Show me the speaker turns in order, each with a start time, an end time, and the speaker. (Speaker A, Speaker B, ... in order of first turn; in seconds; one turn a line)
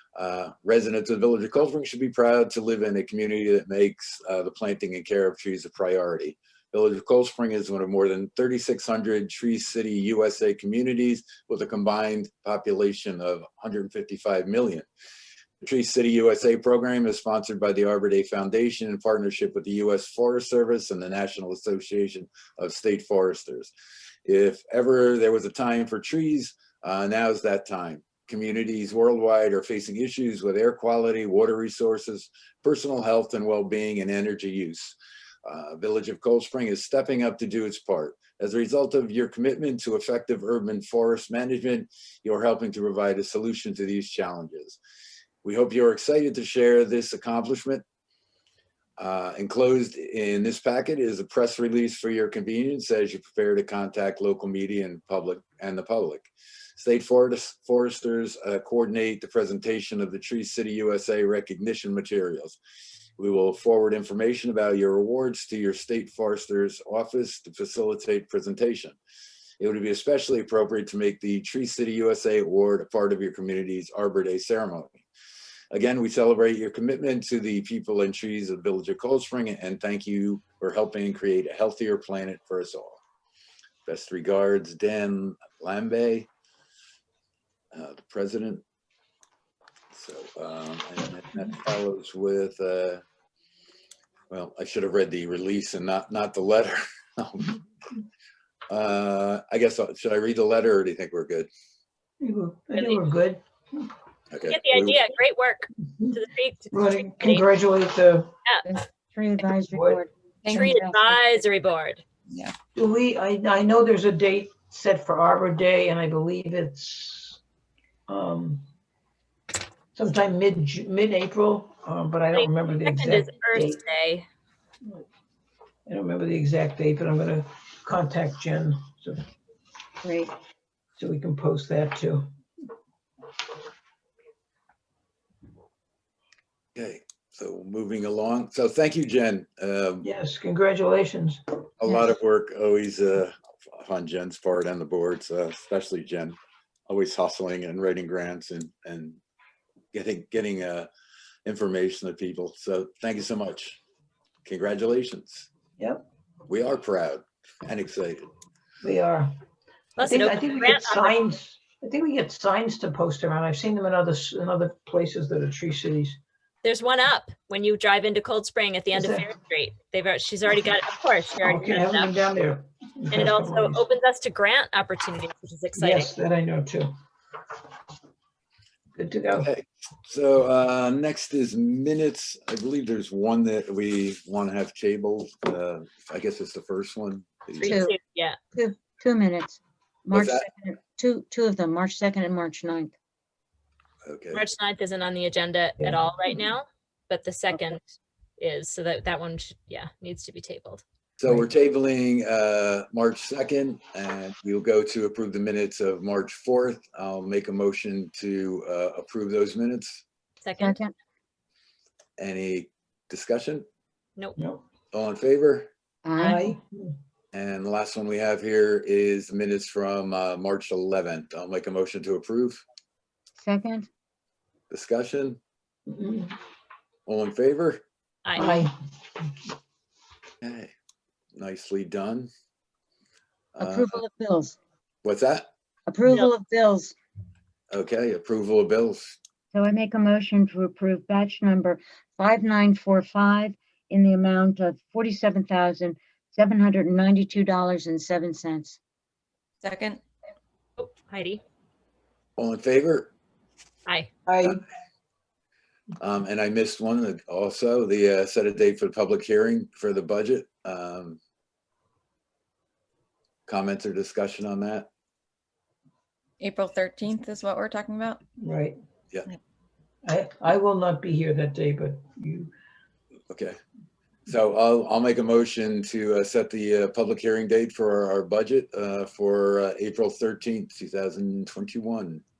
Speaker A: 0.2-14.9
Speaker A: 15.6-23.7
Speaker A: 24.3-44.8
Speaker A: 45.4-47.8
Speaker A: 49.0-62.6
Speaker A: 63.2-69.0
Speaker A: 69.6-75.0
Speaker A: 75.7-83.0
Speaker A: 83.9-86.3
Speaker A: 87.7-88.6
Speaker A: 89.9-93.0
Speaker A: 94.3-97.6
Speaker A: 98.7-101.5
Speaker B: 102.2-103.9
Speaker C: 102.8-103.0
Speaker A: 104.3-105.0
Speaker C: 104.5-107.5
Speaker B: 106.7-108.3
Speaker D: 108.7-111.2
Speaker B: 109.7-110.0
Speaker E: 110.4-110.8
Speaker C: 110.5-112.0
Speaker B: 112.8-117.4
Speaker B: 118.1-118.7
Speaker B: 120.0-123.8
Speaker C: 122.3-124.3
Speaker B: 125.9-129.2
Speaker D: 130.0-130.3
Speaker B: 131.0-132.3
Speaker A: 136.8-140.1
Speaker B: 140.0-141.4
Speaker A: 141.8-146.4
Speaker A: 146.9-149.2
Speaker A: 149.9-150.9
Speaker A: 151.5-153.8
Speaker A: 154.4-155.5
Speaker B: 155.8-156.0
Speaker A: 156.5-158.3
Speaker B: 158.8-159.4
Speaker C: 160.0-161.2
Speaker B: 160.0-166.2
Speaker C: 166.6-172.2
Speaker B: 168.9-169.3
Speaker B: 171.4-173.8
Speaker C: 173.1-176.1
Speaker B: 175.8-176.9
Speaker B: 179.0-179.5
Speaker A: 179.4-187.8
Speaker C: 187.6-188.4
Speaker D: 187.6-188.0
Speaker D: 188.6-192.9
Speaker A: 190.1-190.5
Speaker A: 194.1-194.4
Speaker C: 194.3-200.8
Speaker A: 201.2-210.0
Speaker C: 210.4-210.8
Speaker D: 210.6-210.9
Speaker A: 212.2-213.7
Speaker A: 214.9-215.7
Speaker D: 216.1-216.5
Speaker B: 216.2-216.9
Speaker A: 217.3-222.6
Speaker D: 223.4-223.9
Speaker A: 224.7-225.4
Speaker B: 225.9-226.3
Speaker A: 227.1-227.8
Speaker C: 228.2-228.7
Speaker B: 228.4-228.7
Speaker A: 230.4-230.7
Speaker A: 231.3-232.3
Speaker A: 233.6-234.0
Speaker D: 233.6-234.6
Speaker A: 235.0-235.5
Speaker D: 235.9-236.9
Speaker A: 237.7-239.2
Speaker D: 239.5-248.8
Speaker E: 249.6-250.0
Speaker C: 250.8-251.4
Speaker A: 252.4-253.1
Speaker E: 254.3-254.6
Speaker A: 256.0-261.2
Speaker A: 263.5-264.9
Speaker E: 266.4-268.2
Speaker B: 268.4-268.8
Speaker B: 270.0-272.5
Speaker A: 273.3-273.6
Speaker A: 274.3-282.2